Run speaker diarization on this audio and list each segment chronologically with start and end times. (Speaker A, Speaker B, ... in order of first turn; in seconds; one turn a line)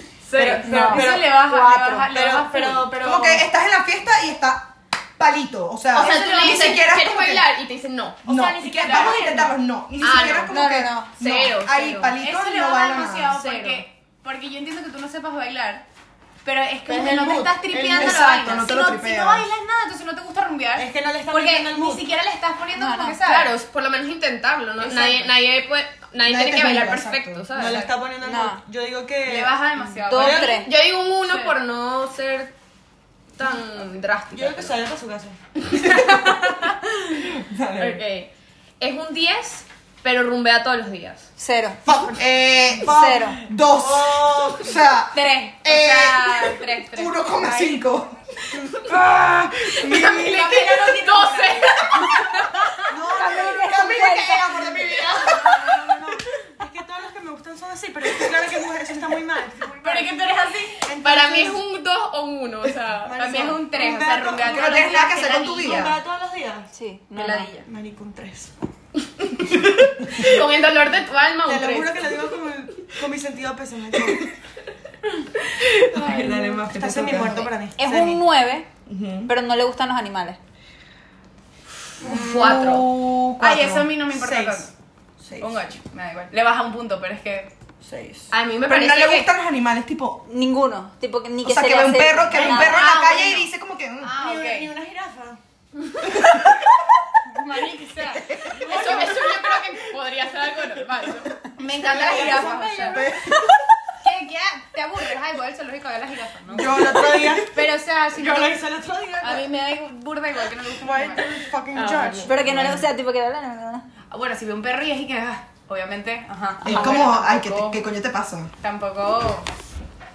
Speaker A: 0.3-0.6
Speaker B: 0.4-3.4
Speaker C: 0.4-1.4
Speaker D: 0.6-2.1
Speaker C: 2.1-3.0
Speaker E: 3.0-7.5
Speaker A: 5.9-8.2
Speaker B: 6.0-6.8
Speaker E: 8.2-13.4
Speaker C: 8.3-9.4
Speaker B: 8.3-9.5
Speaker A: 8.8-9.2
Speaker A: 10.0-10.6
Speaker D: 10.5-11.1
Speaker A: 11.2-12.2
Speaker B: 12.2-15.8
Speaker A: 13.3-13.8
Speaker B: 16.4-23.5
Speaker C: 16.9-18.3
Speaker E: 17.9-19.5
Speaker C: 20.8-22.1
Speaker D: 22.8-23.2
Speaker A: 23.2-27.9
Speaker C: 24.8-25.2
Speaker E: 26.2-27.5
Speaker C: 27.6-29.6
Speaker D: 28.2-28.6
Speaker B: 29.2-30.7
Speaker D: 30.1-30.7
Speaker C: 30.1-30.6
Speaker A: 30.6-32.5
Speaker B: 31.2-31.5
Speaker A: 33.4-34.8
Speaker C: 34.3-35.4
Speaker E: 35.8-38.0
Speaker A: 37.8-41.3
Speaker D: 41.4-41.8
Speaker E: 41.9-43.0
Speaker C: 42.8-44.7
Speaker D: 42.9-43.4
Speaker E: 43.5-48.2
Speaker B: 45.1-47.9
Speaker E: 48.8-50.6
Speaker A: 49.8-52.2
Speaker B: 49.9-52.9
Speaker C: 52.9-53.8
Speaker D: 53.1-54.6
Speaker E: 53.2-55.9
Speaker C: 55.1-60.0
Speaker B: 59.7-60.9
Speaker A: 59.9-60.2
Speaker A: 60.8-63.5
Speaker C: 60.9-61.6
Speaker C: 63.0-66.7
Speaker B: 63.2-65.9
Speaker E: 64.4-66.0
Speaker D: 66.7-67.6
Speaker B: 67.2-67.6
Speaker C: 67.6-68.5
Speaker E: 69.4-70.2
Speaker A: 70.1-72.2
Speaker C: 71.5-74.3
Speaker E: 75.6-77.5
Speaker B: 76.0-76.4
Speaker C: 76.6-78.2
Speaker D: 77.8-78.7
Speaker E: 78.9-79.3
Speaker D: 79.3-80.4
Speaker A: 82.0-82.9
Speaker E: 82.0-83.9
Speaker B: 83.4-84.7
Speaker C: 84.1-84.7
Speaker C: 85.2-85.5
Speaker B: 85.4-87.5
Speaker C: 87.8-88.3
Speaker A: 88.3-89.3
Speaker E: 88.7-90.2
Speaker D: 90.3-92.9
Speaker E: 91.4-94.1
Speaker C: 92.3-92.9
Speaker B: 92.8-93.3
Speaker B: 94.0-94.7
Speaker C: 94.2-95.4
Speaker E: 96.1-96.6
Speaker B: 97.2-99.1
Speaker E: 98.1-99.0
Speaker A: 98.6-102.4
Speaker B: 101.5-103.0
Speaker C: 101.7-103.2
Speaker E: 102.8-103.7
Speaker B: 104.0-108.7
Speaker C: 106.5-107.5
Speaker E: 106.7-107.4
Speaker C: 108.2-109.5
Speaker B: 109.2-111.3
Speaker C: 110.8-112.7
Speaker A: 111.7-112.3
Speaker D: 112.2-113.9
Speaker E: 112.5-112.8
Speaker B: 114.1-117.8
Speaker E: 116.6-118.5
Speaker D: 116.7-117.0
Speaker B: 118.6-119.5